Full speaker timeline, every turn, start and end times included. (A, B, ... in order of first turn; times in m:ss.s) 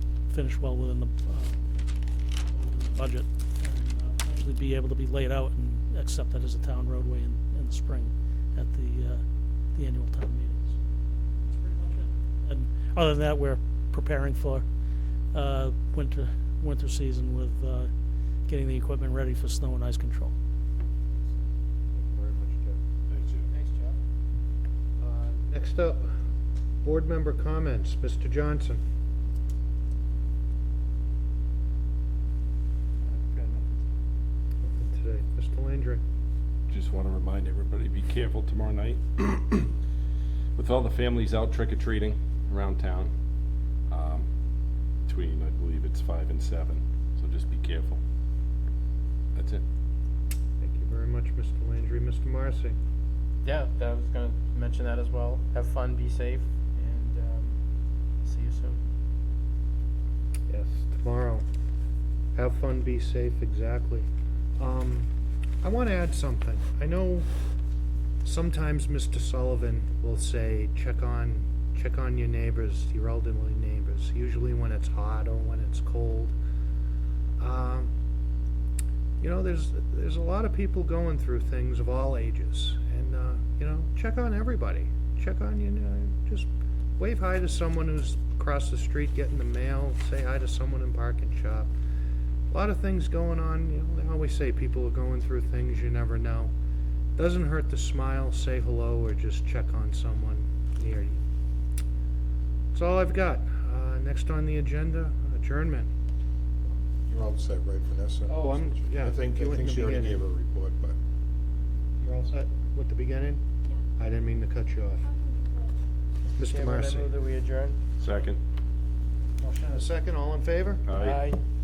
0:00.3-0:01.6 A
0:02.5-0:09.2 A
0:09.7-0:10.8 A
0:11.5-0:14.6 A
0:15.3-0:17.9 A
0:18.5-0:20.3 A
0:21.9-0:22.8 B
0:23.1-0:23.4 C
0:23.5-0:24.0 D
0:25.0-0:26.1 B
0:26.8-0:28.8 B
0:33.3-0:33.7 D
0:34.6-0:36.0 B
0:36.7-0:39.7 C
0:40.6-0:43.1 C
0:43.9-0:44.2 C
0:45.0-0:48.0 C
0:49.4-0:49.6 C
0:50.6-0:52.8 B
0:53.4-0:57.6 D
0:58.2-0:58.8 D
1:00.5-1:01.4 B
1:02.3-1:05.1 B
1:05.6-1:07.3 B
1:08.2-1:16.4 B
1:17.4-1:17.9 B
1:19.2-1:31.7 B
1:32.5-1:36.5 B
1:37.2-1:41.2 B
1:42.7-1:45.9 B
1:47.1-1:50.9 E
1:48.3-1:50.2 B
1:52.0-1:53.4 B
1:53.9-1:55.1 B
1:56.3-1:57.1 B
1:56.4-1:57.8 D
1:58.0-1:58.4 C
1:59.4-2:00.9 B
2:00.9-2:01.3 C
2:01.0-2:01.4 D